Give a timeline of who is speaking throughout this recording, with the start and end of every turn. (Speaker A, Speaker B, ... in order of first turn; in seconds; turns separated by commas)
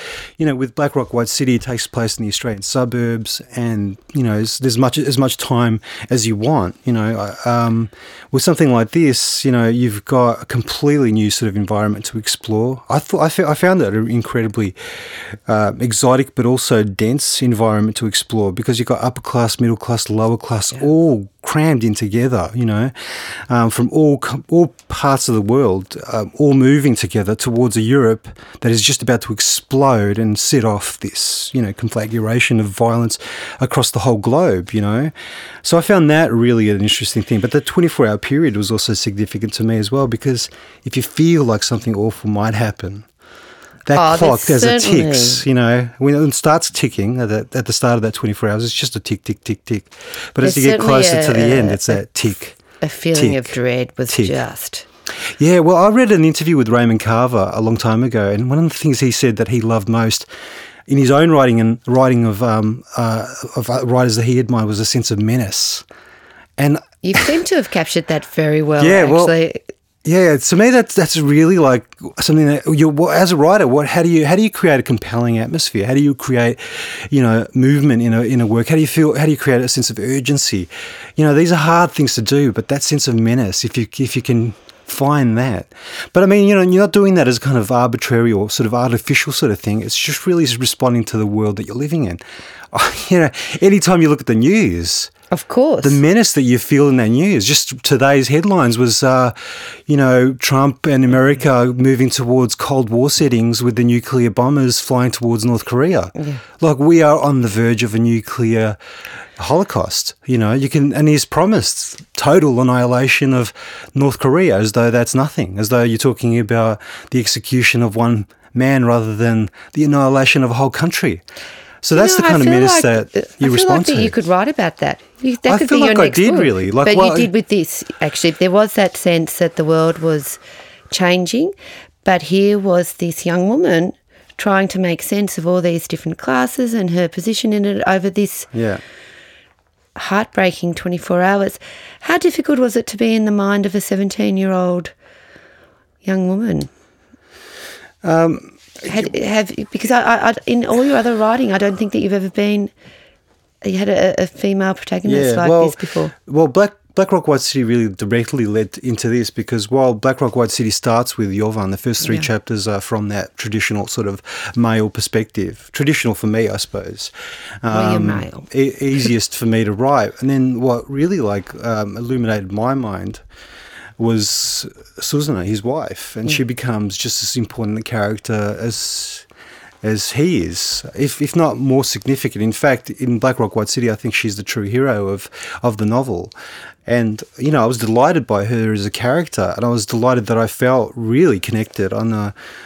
Speaker A: 0.4-35.1, Speaker A: 35.6-43.1, Speaker A: 43.9-52.6, Speaker B: 43.9-45.4, Speaker B: 50.4-52.0, Speaker B: 52.8-54.9, Speaker A: 53.1-53.5, Speaker A: 54.1-54.4, Speaker A: 55.3-60.3, Speaker A: 60.9-65.8, Speaker A: 66.6-67.3, Speaker B: 67.0-69.7, Speaker A: 68.8-69.3, Speaker A: 70.0-92.2, Speaker A: 92.7-95.1, Speaker B: 95.3-96.0, Speaker A: 95.8-108.8, Speaker B: 106.2-106.4, Speaker A: 109.4-121.2, Speaker A: 121.8-124.2, Speaker B: 121.9-130.4, Speaker A: 125.5-127.3, Speaker B: 130.9-138.5, Speaker A: 138.5-138.8, Speaker B: 139.9-144.9, Speaker B: 146.0-146.7, Speaker A: 148.0-149.1, Speaker B: 148.8-152.7, Speaker B: 153.6-156.1, Speaker A: 155.0-173.2, Speaker B: 162.0-162.3, Speaker B: 167.7-168.4, Speaker A: 174.0-179.3, Speaker A: 179.8-186.3, Speaker A: 186.8-192.3